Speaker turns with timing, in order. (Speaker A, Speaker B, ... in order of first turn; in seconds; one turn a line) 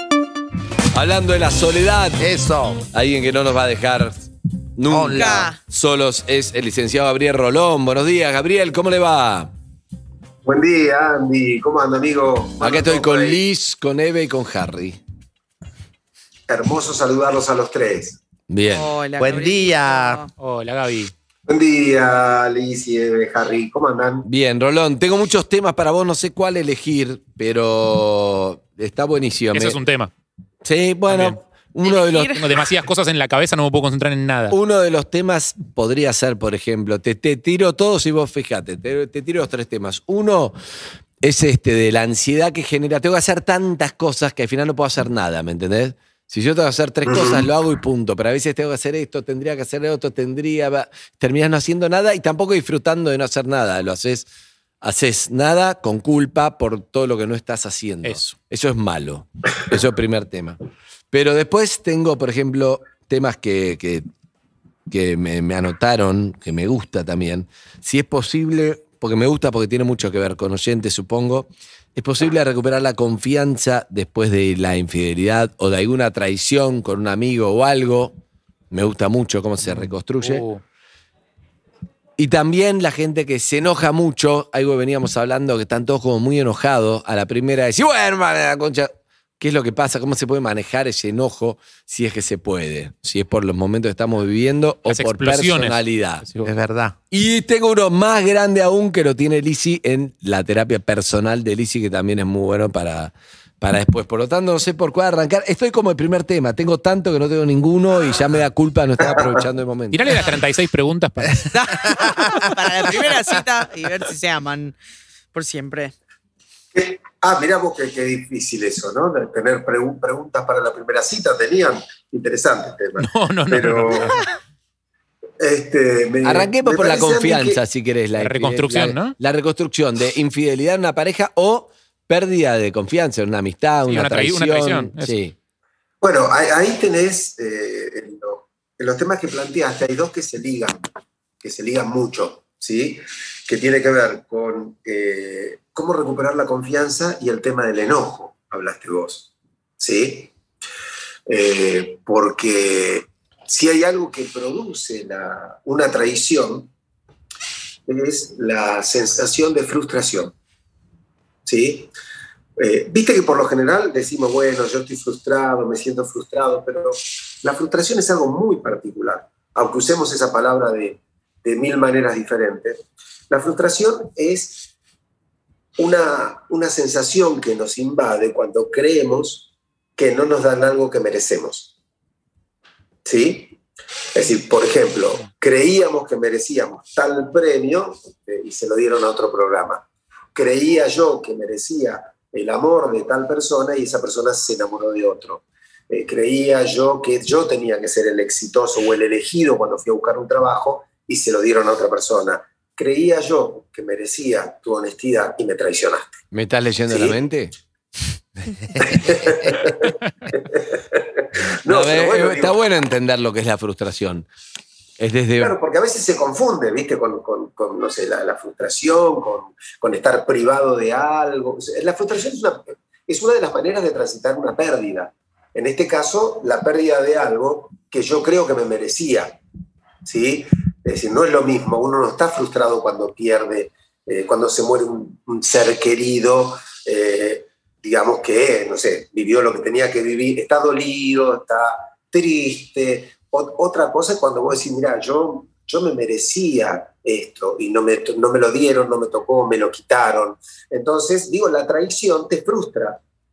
Speaker A: 0.9-2.2
Speaker B: 2.2-2.9
Speaker A: 2.9-4.2
Speaker A: 4.8-9.5
Speaker B: 4.9-5.5
Speaker C: 5.1-5.6
Speaker D: 10.4-13.4
Speaker A: 12.6-15.0
Speaker D: 16.5-18.2
Speaker A: 18.5-18.9
Speaker C: 18.7-20.3
Speaker B: 19.2-20.2
Speaker E: 20.4-21.1
Speaker D: 21.5-24.3
Speaker A: 24.2-29.8
Speaker E: 29.5-30.1
Speaker A: 30.6-32.7
Speaker E: 31.1-31.4
Speaker C: 31.9-32.4
Speaker E: 32.3-34.6
Speaker A: 34.5-40.6
Speaker A: 41.2-54.3
Speaker D: 47.0-47.5
Speaker A: 54.8-60.6
Speaker E: 58.0-58.3
Speaker A: 61.1-64.0
Speaker A: 64.9-78.1
Speaker A: 78.7-80.5
Speaker E: 79.7-80.6
Speaker A: 82.2-96.3
Speaker E: 94.9-96.5
Speaker B: 96.4-97.0
Speaker A: 97.1-110.3
Speaker E: 109.9-111.5
Speaker C: 111.4-114.8
Speaker B: 111.8-112.5
Speaker C: 115.3-115.9
Speaker D: 116.8-124.2
Speaker E: 123.0-124.2
Speaker D: 125.4-127.6
Speaker A: 126.2-135.3
Speaker E: 128.2-129.2
Speaker E: 133.9-135.1
Speaker D: 136.0-140.8
Speaker D: 141.4-149.3
Speaker D: 149.8-150.3
Speaker D: 151.3-156.7
Speaker D: 157.9-160.3
Speaker D: 161.5-161.9
Speaker D: 162.6-174.7
Speaker D: 175.8-181.7
Speaker D: 183.1-183.6
Speaker D: 184.1-206.2
Speaker A: 206.3-207.5
Speaker D: 206.9-207.2
Speaker D: 208.8-212.6
Speaker B: 208.8-209.5
Speaker A: 211.7-214.3
Speaker A: 215.0-215.6
Speaker D: 215.4-229.4
Speaker D: 230.1-253.0